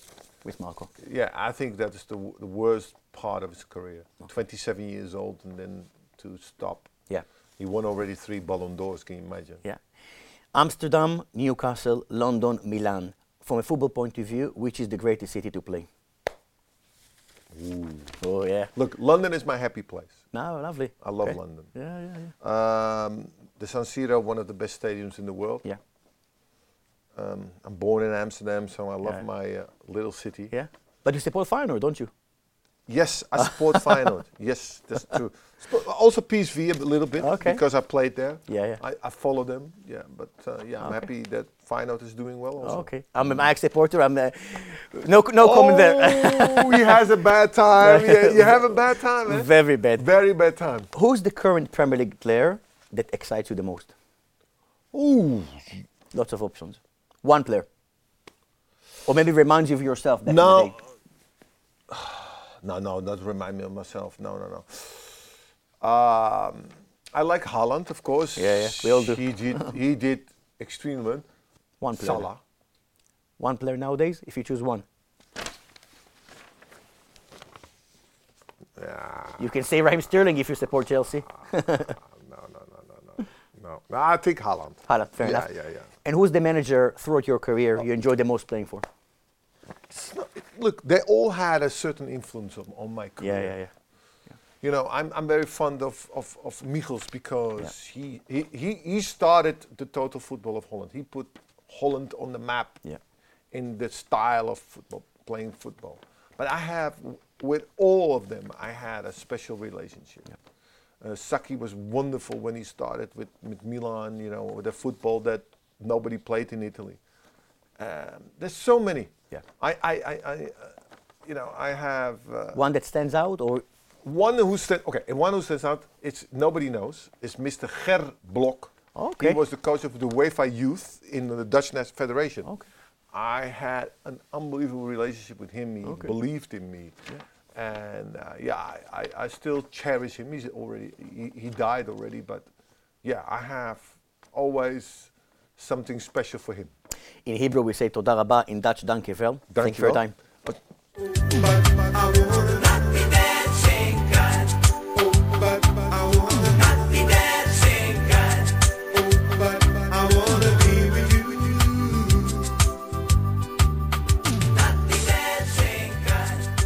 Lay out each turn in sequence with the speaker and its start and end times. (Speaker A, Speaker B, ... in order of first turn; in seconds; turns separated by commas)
Speaker A: 0.5-0.9, Speaker B: 1.0-6.9, Speaker B: 7.6-9.6, Speaker A: 10.5-15.9, Speaker B: 17.5-18.2, Speaker A: 18.2-18.7, Speaker B: 18.8-20.2, Speaker A: 20.3-22.3, Speaker B: 21.0-21.7, Speaker B: 22.4-25.7, Speaker B: 27.1-30.5, Speaker A: 30.5-32.1, Speaker B: 32.9-42.9, Speaker A: 33.4-34.1, Speaker A: 37.2-37.6, Speaker A: 38.5-38.8, Speaker A: 40.8-41.1, Speaker A: 42.6-46.9, Speaker B: 45.4-50.9, Speaker A: 47.8-50.0, Speaker A: 50.9-53.9, Speaker B: 54.9-55.8, Speaker A: 56.1-57.7, Speaker A: 59.1-60.8, Speaker B: 60.3-60.9, Speaker B: 61.9-65.3, Speaker B: 65.8-71.3, Speaker A: 68.4-69.7, Speaker A: 71.8-72.3, Speaker B: 71.9-72.4, Speaker A: 73.4-74.8, Speaker B: 78.8-79.5, Speaker A: 79.4-82.0, Speaker B: 81.7-85.9, Speaker A: 84.9-85.5, Speaker A: 86.0-88.9, Speaker B: 89.9-93.6, Speaker A: 93.2-93.7, Speaker B: 94.6-102.8, Speaker B: 103.5-110.3, Speaker B: 111.0-117.0, Speaker B: 117.8-122.6, Speaker A: 122.5-123.7, Speaker B: 124.0-132.5, Speaker A: 128.9-129.4, Speaker B: 133.1-142.5, Speaker A: 135.8-136.1, Speaker B: 143.0-146.7, Speaker A: 147.3-150.2, Speaker B: 149.5-152.9, Speaker A: 152.6-154.2, Speaker B: 155.0-156.8, Speaker A: 156.6-158.2, Speaker B: 158.9-162.6, Speaker A: 164.8-166.1